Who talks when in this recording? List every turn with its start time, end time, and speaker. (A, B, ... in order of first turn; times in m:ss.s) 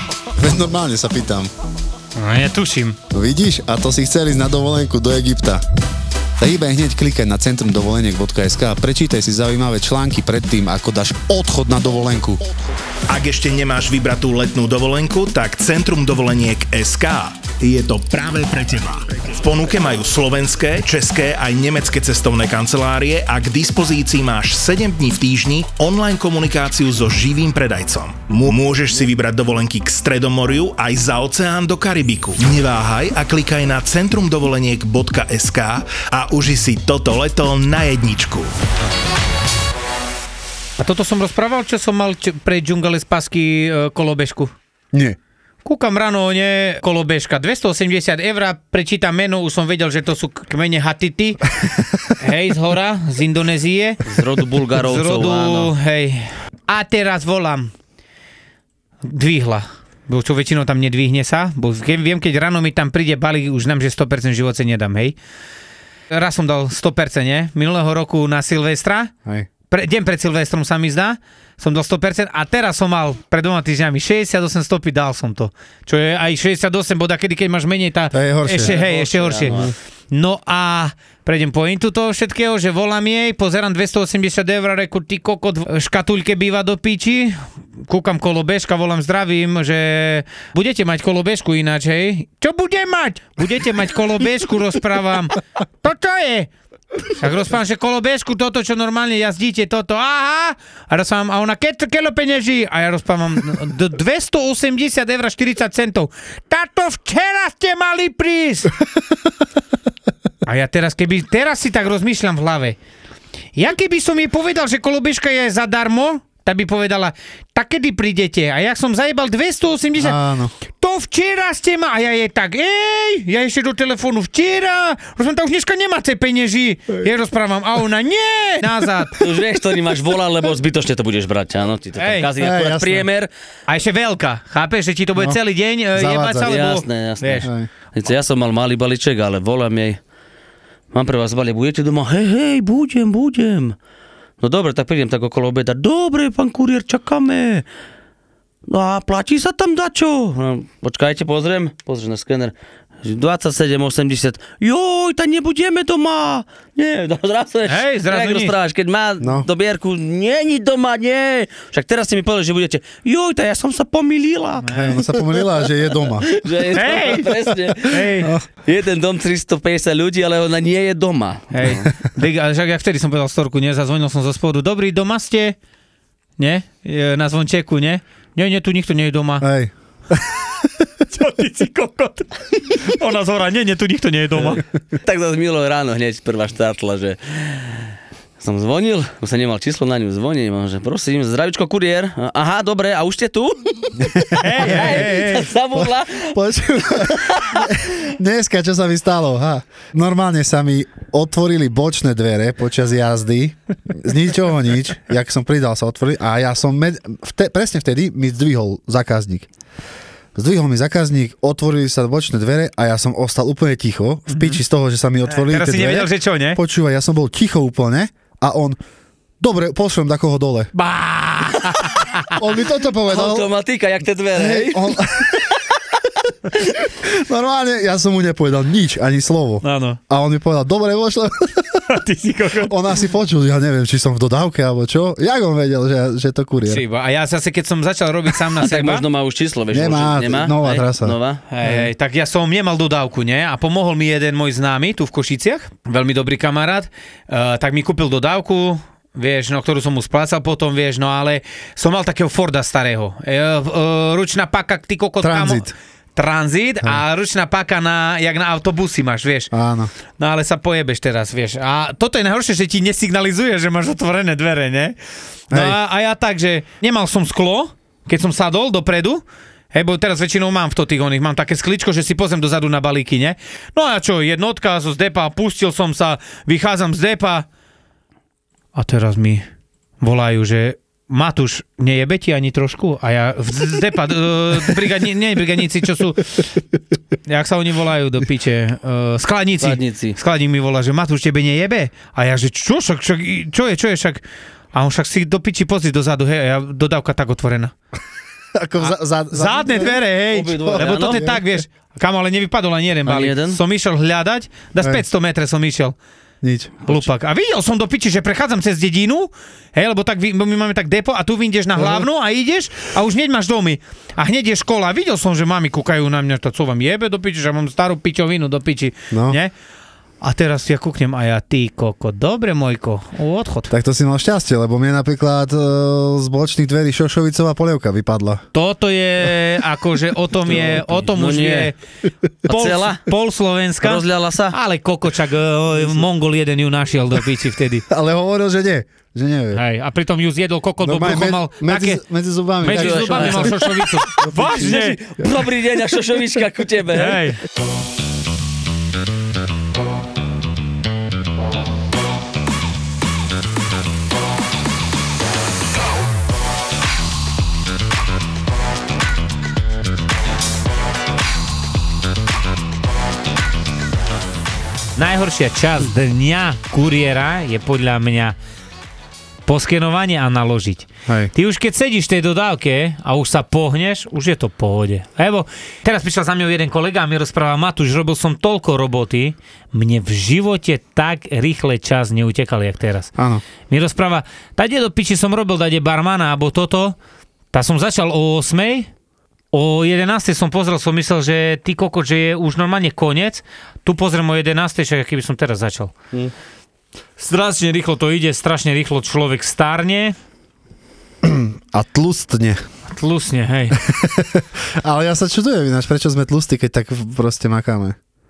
0:00.4-0:01.5 A
0:02.2-0:03.0 B
0:03.1-0:05.6 A
0:06.4-0:12.4 A
0:13.1-0:38.5 C
0:40.8-0:44.5 B
0:45.6-0:51.4 B
0:52.2-0:57.7 B
0:54.0-0:55.7 D
0:59.0-1:05.2 B
1:06.1-1:09.1 B
1:09.7-1:36.5 B
1:18.1-1:18.7 A
1:18.6-1:19.7 D
1:37.1-1:48.7 B
1:50.4-1:52.8 B
1:53.6-2:00.2 B
2:00.0-2:00.5 A
2:00.7-2:09.2 B
2:09.2-2:13.3 D
2:12.0-2:12.3 B
2:12.4-2:13.1 A
2:13.7-2:17.5 B
2:15.9-2:16.5 A
2:16.4-2:20.0 D
2:17.4-2:17.7 A
2:20.9-2:23.8 D
2:24.4-2:27.6 D
2:28.7-2:45.1 D
2:37.7-2:38.5 B
2:39.2-2:39.5 A
2:44.6-2:45.0 B
2:44.7-2:46.3 A
2:46.2-2:48.1 D
2:46.7-2:48.3 B
2:48.6-2:51.9 D
2:51.5-2:55.6 B
2:56.4-2:59.5 B
2:59.4-3:00.7 A
3:01.1-3:04.6 B
3:05.0-3:17.7 D
3:14.2-3:15.1 A
3:14.4-3:15.5 B
3:15.8-3:29.5 A
3:30.4-3:38.8 A
3:34.3-3:34.6 B
3:35.3-3:36.6 B
3:39.4-3:40.7 A
3:40.7-3:42.3 B
3:42.3-3:43.5 A
3:43.1-3:45.1 D
3:44.4-3:45.5 A
3:46.9-3:51.8 A
3:49.6-3:50.0 B
3:51.9-3:52.7 B
3:52.6-3:56.8 A
3:56.6-3:59.0 B
3:58.6-4:01.4 D
3:59.7-4:01.9 A
4:01.5-4:19.5 B
4:15.2-4:15.7 A
4:19.5-4:19.9 A
4:20.2-4:25.0 B
4:25.5-4:37.5 B
4:25.5-4:25.8 A
4:38.8-4:39.4 B
4:40.0-4:46.4 B
4:47.3-4:54.2 B
4:49.6-4:50.2 D
4:54.7-4:57.7 B
4:58.6-5:00.0 A
4:58.8-5:06.0 B
5:00.3-5:01.3 D
5:00.6-5:01.4 A
5:03.1-5:03.6 D
5:06.4-5:06.8 A
5:06.9-5:19.5 B
5:19.1-5:19.4 A
5:20.2-5:23.7 B
5:23.7-5:28.4 A
5:28.5-5:31.8 B
5:30.5-5:31.7 D
5:32.5-5:33.0 D
5:32.5-5:37.8 B
5:33.8-5:34.6 D
5:37.9-5:39.6 A
5:39.5-5:42.0 B
5:40.8-5:44.7 A
5:42.6-5:45.0 B
5:42.7-5:47.3 D
5:46.9-5:47.4 B
6:05.0-6:08.4 B
6:09.5-6:23.1 B
6:23.2-6:23.4 A
6:23.7-6:27.0 B
6:27.5-6:28.9 B
6:29.5-6:35.9 B
6:37.2-6:40.2 B
6:41.2-6:42.6 A
6:42.9-6:43.8 B
6:43.8-6:48.0 A